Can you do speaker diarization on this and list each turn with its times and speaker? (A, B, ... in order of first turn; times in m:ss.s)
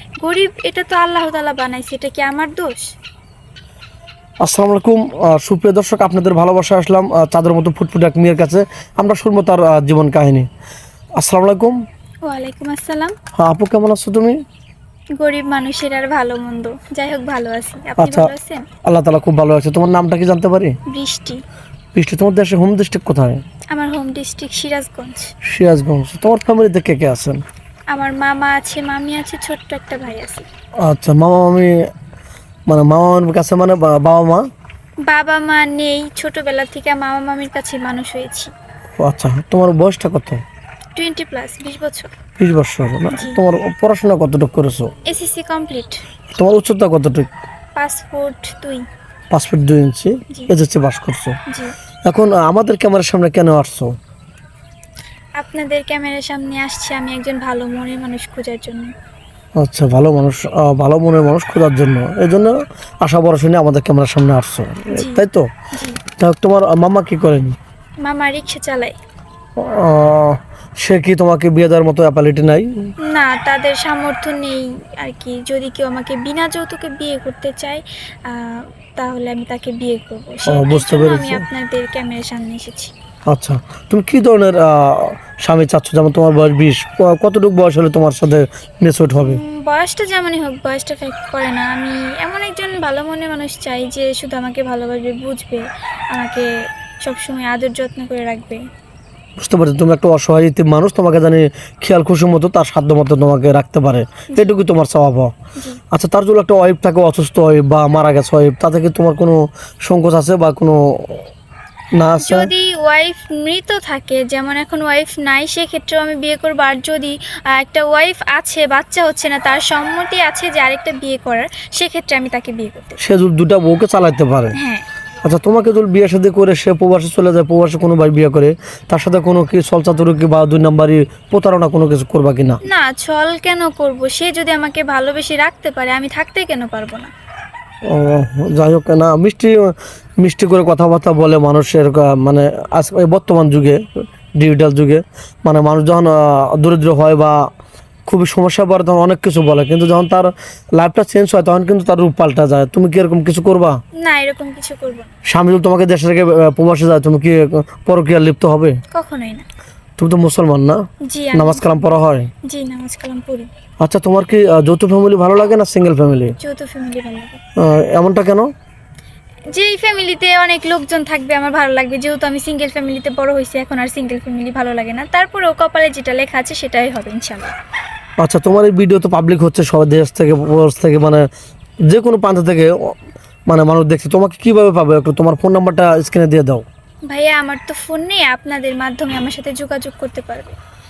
0:00.2-0:02.9 A
0:04.4-0:10.5 B
0:11.2-0:11.8 B
0:12.2-0:13.2 A
0:13.4-0:14.4 B
0:15.2-0:18.7 A
0:18.0-0:18.3 B
0:18.8-0:20.8 B
0:20.9-0:21.4 A
0:21.9-0:23.4 B
0:23.7-0:25.3 A
0:25.4-0:27.4 B
0:27.9-0:30.5 A
0:30.8-0:31.8 B
0:32.7-0:34.4 B
0:35.1-0:38.5 A
0:39.0-0:40.4 B
0:41.0-0:42.1 A
0:42.4-0:44.9 B
0:43.1-0:43.4 A
0:45.1-0:46.0 A
0:46.3-0:47.3 B
0:47.8-0:48.8 A
0:49.3-0:51.4 B
0:51.5-0:51.7 A
0:52.1-0:53.9 B
0:55.4-0:58.9 A
0:59.6-1:05.5 B
1:04.9-1:06.0 A
1:06.2-1:07.6 B
1:08.0-1:09.0 A
1:09.6-1:12.9 B
1:13.1-1:22.9 A
1:20.5-1:21.4 B
1:23.3-1:29.4 B
1:29.2-1:36.5 A
1:37.0-1:38.6 A
1:39.4-1:45.3 B
1:45.9-1:51.3 B
1:52.0-1:52.5 B
1:52.2-2:03.0 A
2:03.0-2:04.6 B
2:04.6-2:04.8 A
2:05.2-2:12.6 B
2:12.6-2:17.1 A
2:17.9-2:23.9 B
2:24.4-2:27.5 B
2:28.1-2:33.8 B
2:34.0-2:35.1 A
2:35.3-2:38.8 B
2:38.9-2:39.5 A
2:40.0-2:40.8 B
2:41.1-2:43.5 A
2:41.3-2:42.3 B
2:43.8-2:46.4 B
2:46.4-2:47.4 A
2:47.6-2:48.5 B
2:49.5-2:57.6 A
2:58.2-3:01.2 B
3:01.9-3:03.0 B
3:03.5-3:06.6 B
3:07.1-3:10.6 A